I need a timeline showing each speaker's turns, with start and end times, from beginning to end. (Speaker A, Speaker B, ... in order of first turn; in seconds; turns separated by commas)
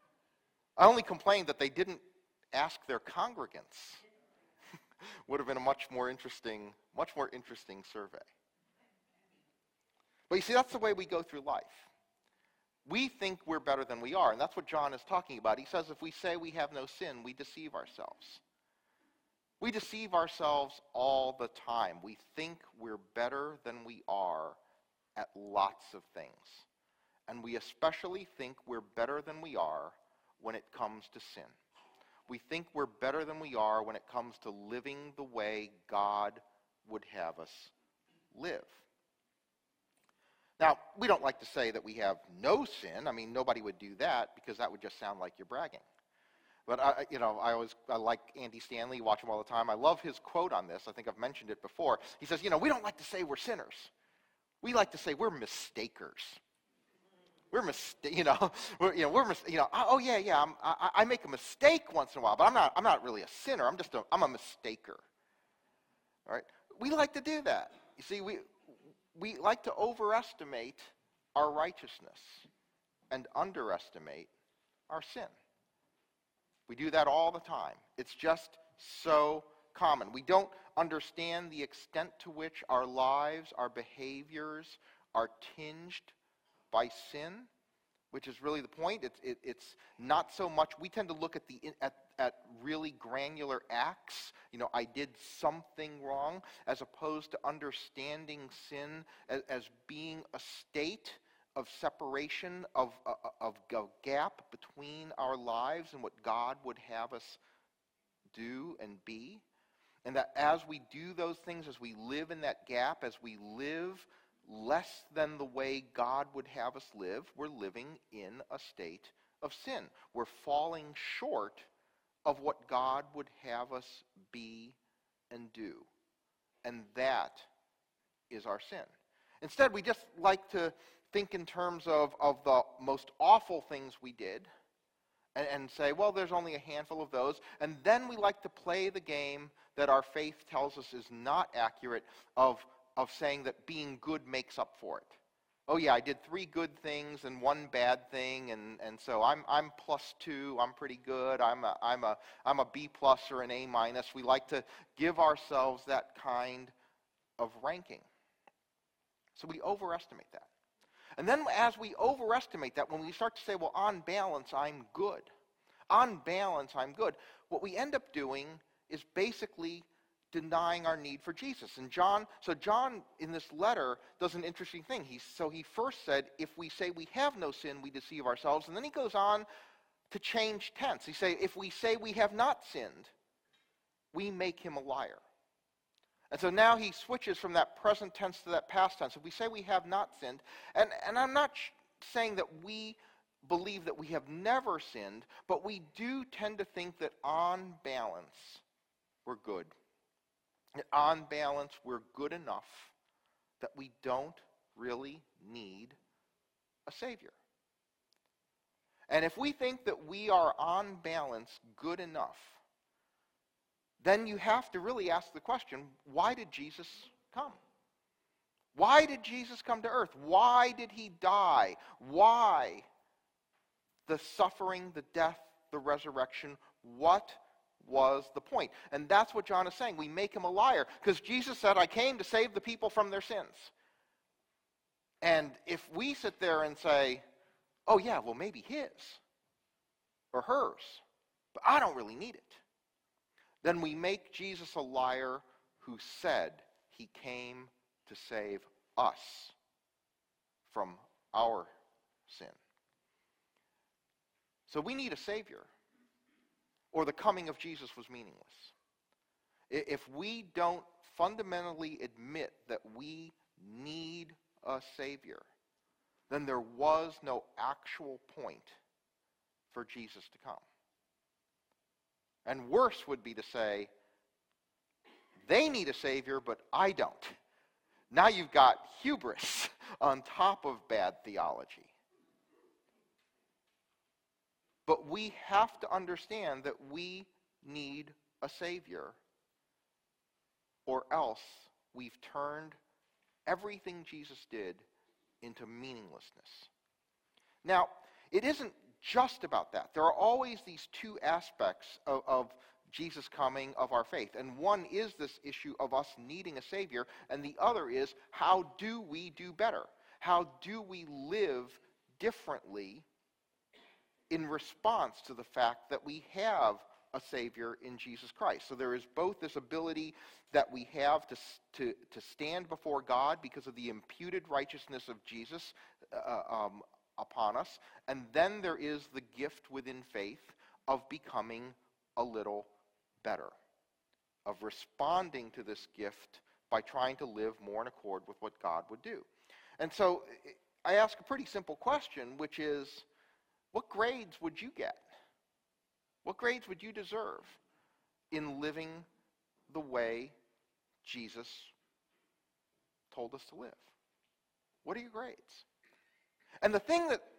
Speaker A: 0.8-4.0, Speaker A: 5.0-8.3, Speaker A: 10.3-11.9, Speaker A: 12.8-18.4, Speaker A: 19.6-24.6, Speaker A: 25.1-26.7, Speaker A: 27.3-31.6, Speaker A: 32.3-37.7, Speaker A: 38.3-38.8, Speaker A: 40.6-45.8, Speaker A: 46.7-53.9, Speaker A: 54.6-56.4, Speaker A: 57.5-65.0, Speaker A: 66.2-68.5, Speaker A: 69.1-72.5, Speaker A: 73.1-74.3, Speaker A: 74.9-75.3, Speaker A: 76.7-86.1, Speaker A: 86.7-87.5, Speaker A: 88.1-107.4, Speaker A: 108.3-109.4, Speaker A: 110.0-121.7, Speaker A: 122.2-124.8, Speaker A: 125.3-125.9, Speaker A: 126.6-127.5, Speaker A: 128.3-134.5, Speaker A: 135.3-156.7, Speaker A: 157.4-158.1, Speaker A: 159.3-160.5, Speaker A: 161.2-165.3, Speaker A: 165.9-179.5, Speaker A: 180.1-183.1, Speaker A: 184.1-185.2, Speaker A: 186.3-198.6, Speaker A: 199.2-199.7, Speaker A: 200.8-202.9, Speaker A: 203.6-206.0, Speaker A: 206.8-207.3, Speaker A: 209.1-212.6, Speaker A: 214.0-217.6, Speaker A: 218.7-222.9, Speaker A: 224.1-233.7, Speaker A: 235.2-237.2, Speaker A: 237.9-239.2, Speaker A: 240.3-241.0, Speaker A: 241.5-242.6, Speaker A: 243.6-249.5, Speaker A: 250.7-251.7, Speaker A: 252.3-252.6, Speaker A: 254.7-255.7, Speaker A: 256.9-258.7, Speaker A: 259.7-265.5, Speaker A: 266.3-268.8, Speaker A: 269.7-270.6, Speaker A: 272.4-273.9, Speaker A: 275.4-277.4, Speaker A: 278.1-281.9, Speaker A: 284.9-289.2, Speaker A: 290.9-292.8, Speaker A: 293.4-294.9, Speaker A: 295.4-296.7, Speaker A: 297.6-313.1, Speaker A: 314.3-332.7, Speaker A: 333.2-333.5, Speaker A: 334.4-343.1, Speaker A: 343.7-345.1, Speaker A: 346.2-347.6, Speaker A: 348.3-349.1, Speaker A: 349.7-350.4, Speaker A: 351.0-351.7, Speaker A: 353.1-353.9, Speaker A: 354.8-355.6, Speaker A: 356.6-357.2